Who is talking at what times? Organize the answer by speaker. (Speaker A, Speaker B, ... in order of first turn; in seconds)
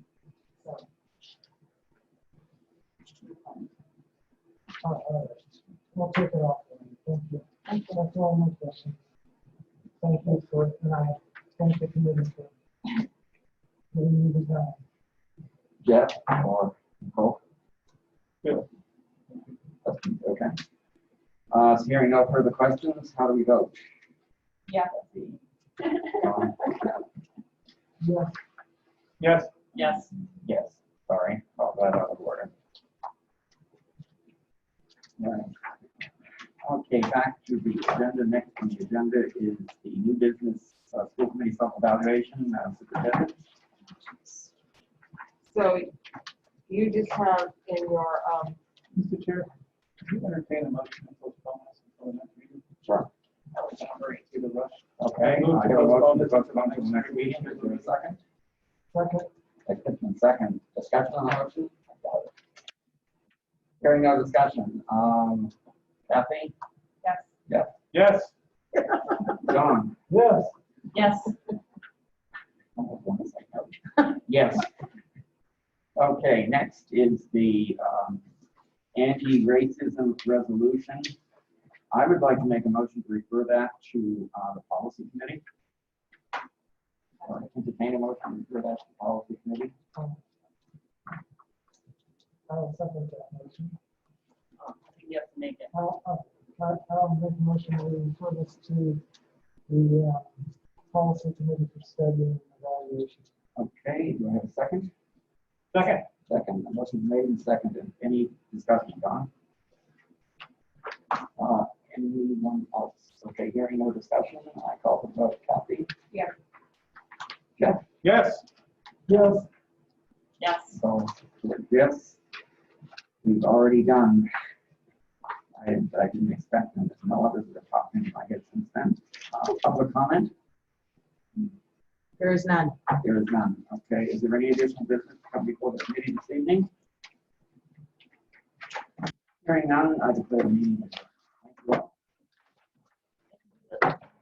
Speaker A: 3.3-3.6, 29.7-30.1, 44.1-44.5, 45.5-45.9, 46.7-48.6, 67.0-67.3, 70.9-71.4, 94.6-95.7, 120.4-120.8, 132.2-132.7
Speaker B: 4.8-9.0, 10.0-12.5, 13.9-14.8, 28.0-28.4, 58.9-59.3, 70.1-70.5, 92.5-93.8, 95.7-99.0, 99.7-100.3, 100.9-103.3, 119.1-119.5
Speaker C: 15.8-17.4, 19.9-20.6, 21.5-23.8, 24.9-25.4, 26.2-26.9, 30.4-32.5, 35.2-35.5, 36.6-43.4, 52.8-53.1, 55.0-58.2, 59.7-62.3, 63.8-65.5, 66.1-66.5, 67.5-67.7, 69.4-70.0, 72.8-74.7, 76.0-78.2, 79.0-81.1, 81.9-85.4, 87.2-89.7, 103.6-104.9, 106.3-109.3, 111.4-115.9, 117.6-117.8, 120.7-122.2, 123.2-124.3, 125.6-130.3, 133.0-136.7, 139.4-141.9
Speaker D: 29.2-29.5, 48.9-49.5, 50.0-52.6, 53.6-57.9, 67.9-68.3, 105.7-106.1, 118.0-118.5